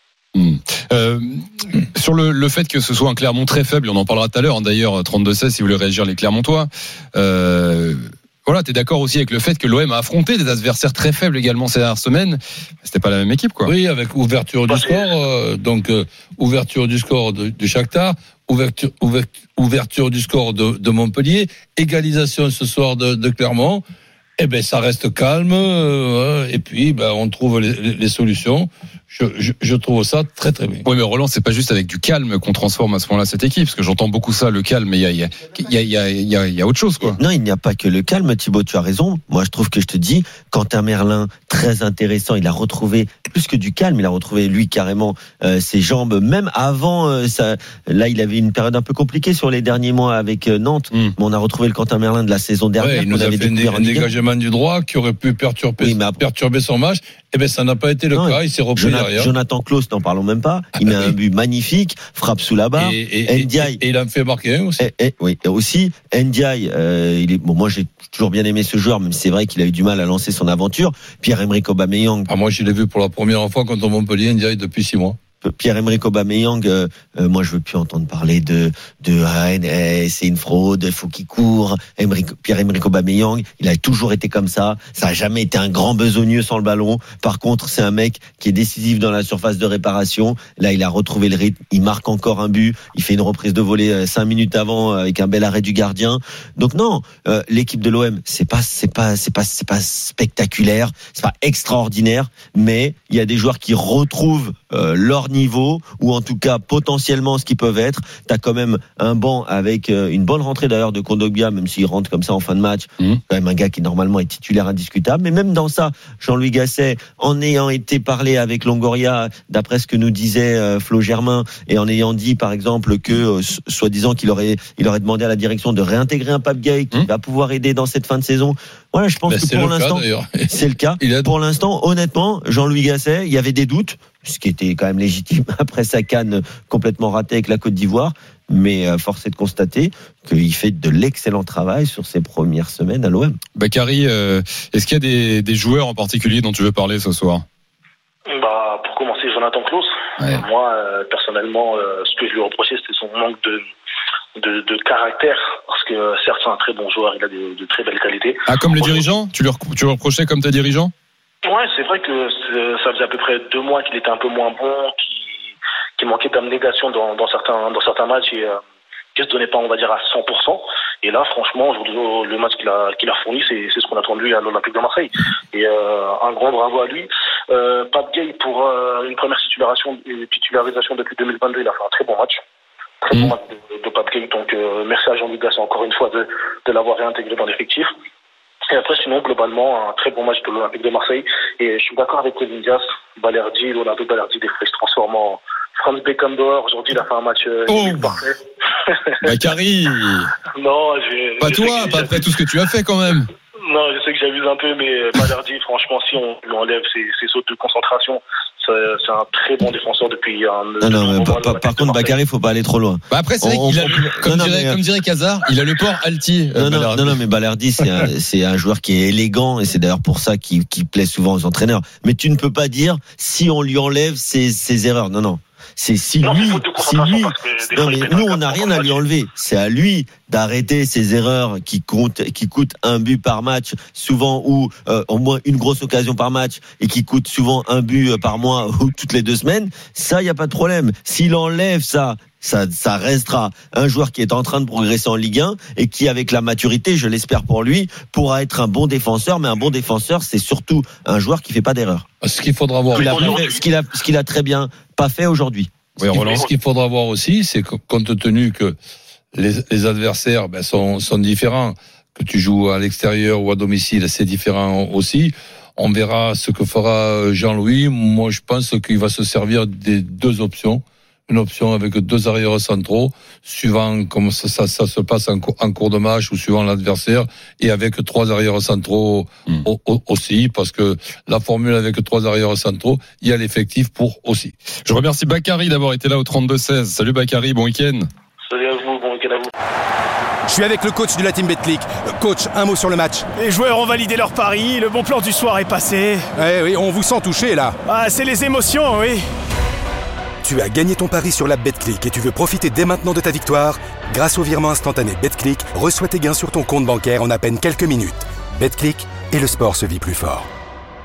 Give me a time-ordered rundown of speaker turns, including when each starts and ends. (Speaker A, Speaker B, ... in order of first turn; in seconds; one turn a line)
Speaker A: 0.3-13.7
Speaker B: 13.7-23.8
Speaker C: 14.7-15.1
Speaker B: 24.4-30.9
Speaker A: 30.9-37.2
Speaker D: 37.0-54.1
Speaker B: 52.8-59.3
Speaker D: 55.8-56.2
Speaker D: 58.1-63.8
Speaker B: 60.8-61.2
Speaker B: 62.8-64.9
Speaker D: 64.8-72.3
Speaker B: 72.3-75.2
Speaker D: 75.4-143.4
Speaker B: 129.2-131.3
Speaker A: 143.6-147.4
Speaker C: 148.3-153.6
Speaker A: 150.2-150.4
Speaker C: 154.4-159.1
Speaker A: 158.5-160.9
Speaker C: 161.4-165.4
Speaker C: 166.0-168.6
Speaker C: 169.2-182.4
Speaker C: 183.0-187.9
Speaker C: 188.7-199.3
Speaker A: 197.7-198.2
Speaker A: 199.2-200.3
Speaker C: 200.5-202.3
Speaker A: 201.4-203.3
Speaker C: 203.6-212.2
Speaker D: 210.8-214.8
Speaker A: 213.1-217.2
Speaker D: 216.5-252.1
Speaker C: 226.2-229.1
Speaker B: 252.2-253.4
Speaker C: 252.9-253.6
Speaker D: 252.9-255.7
Speaker A: 256.0-256.4
Speaker B: 256.1-258.8
Speaker C: 256.1-256.5
Speaker B: 259.3-284.5
Speaker A: 284.9-288.1
Speaker C: 288.4-289.5
Speaker E: 290.5-293.3
Speaker F: 293.4-296.3
Speaker E: 296.4-297.8
Speaker F: 297.8-299.2
Speaker E: 300.4-310.5